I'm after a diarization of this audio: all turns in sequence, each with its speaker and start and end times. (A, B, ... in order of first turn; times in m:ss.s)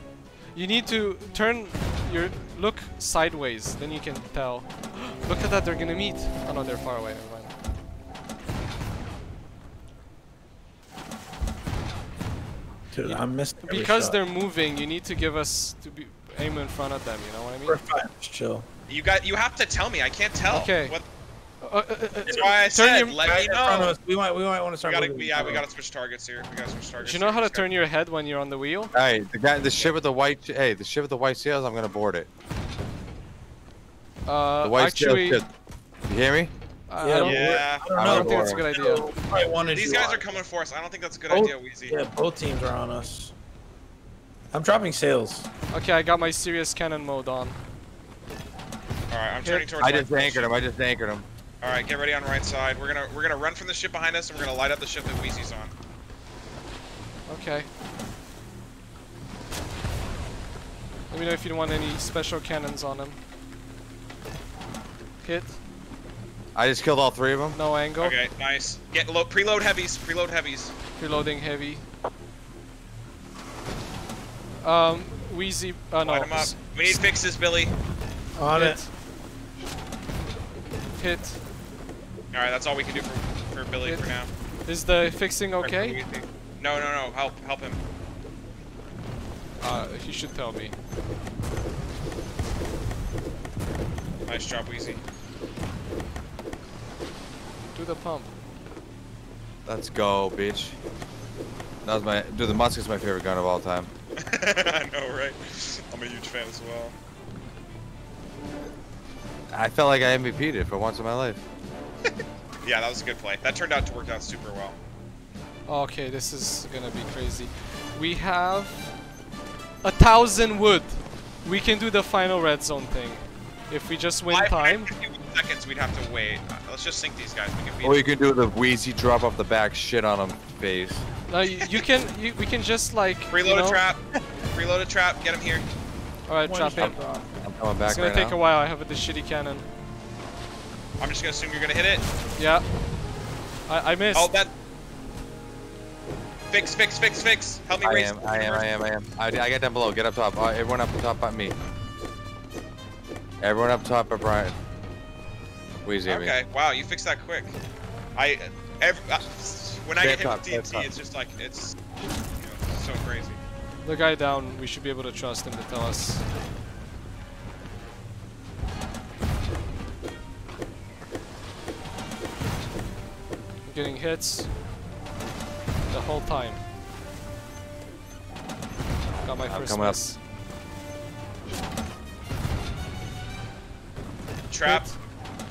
0:00.5-0:07.5 A
0:12.9-0:14.2 B
0:13.0-0:17.8 A
0:17.6-0:18.7 B
0:18.9-0:21.0 C
0:20.5-0:20.9 A
0:21.6-0:23.3 A
0:22.3-0:23.9 C
0:22.3-0:22.6 B
0:23.2-0:25.6 B
0:24.8-0:27.7 C
0:27.0-0:28.9 A
0:28.9-0:32.3 D
0:29.5-0:30.0 C
0:34.2-0:35.4 A
0:34.6-0:35.4 D
0:36.0-0:36.5 D
0:36.9-0:39.1 A
0:37.0-0:40.3 B
0:37.2-0:37.9 C
0:37.9-0:38.7 D
0:39.7-0:42.0 C
0:41.3-0:43.3 B
0:44.5-0:45.5 B
0:45.7-0:47.6 A
0:49.1-0:50.5 C
0:49.4-0:49.7 A
0:49.8-0:51.2 D
0:51.6-0:55.7 C
0:57.3-0:57.7 A
1:01.1-1:03.2 A
1:05.2-1:05.6 A
1:06.5-1:07.6 D
1:07.5-1:08.2 A
1:08.0-1:10.7 C
1:11.0-1:11.8 A
1:14.6-1:17.0 A
1:16.0-1:17.7 C
1:18.4-1:18.9 A
1:18.4-1:18.8 B
1:21.0-1:21.4 A
1:22.3-1:24.3 C
1:23.8-1:24.1 A
1:24.6-1:26.0 A
1:25.6-1:27.8 C
1:29.6-1:30.7 A
1:34.3-1:35.0 C
1:37.7-1:38.3 A
1:39.6-1:40.8 D
1:41.8-1:43.9 D
1:44.2-1:46.9 C
1:49.5-1:51.4 D
1:52.6-1:54.8 C
1:55.7-1:58.9 A
1:59.8-2:04.9 A
2:04.3-2:08.1 C
2:07.8-2:11.0 D
2:11.3-2:13.8 A
2:11.5-2:11.8 C
2:13.3-2:15.6 C
2:16.3-2:16.9 A
2:16.4-2:17.3 B
2:16.7-2:18.4 D
2:17.8-2:19.7 A
2:21.0-2:22.0 C
2:22.4-2:22.6 A
2:23.7-2:24.3 A
2:24.1-2:24.5 C
2:26.5-2:28.7 C
2:27.8-2:31.6 D
2:33.4-2:34.6 D
2:35.8-2:36.4 D
2:36.0-2:37.6 C
2:38.1-2:41.8 C
2:40.0-2:40.9 D
2:42.4-2:43.4 C
2:43.8-2:46.2 A
2:53.6-2:54.5 A
2:55.9-2:56.6 A
2:59.2-3:00.2 A
2:59.4-3:00.0 D
3:04.5-3:04.9 C
3:04.6-3:05.0 A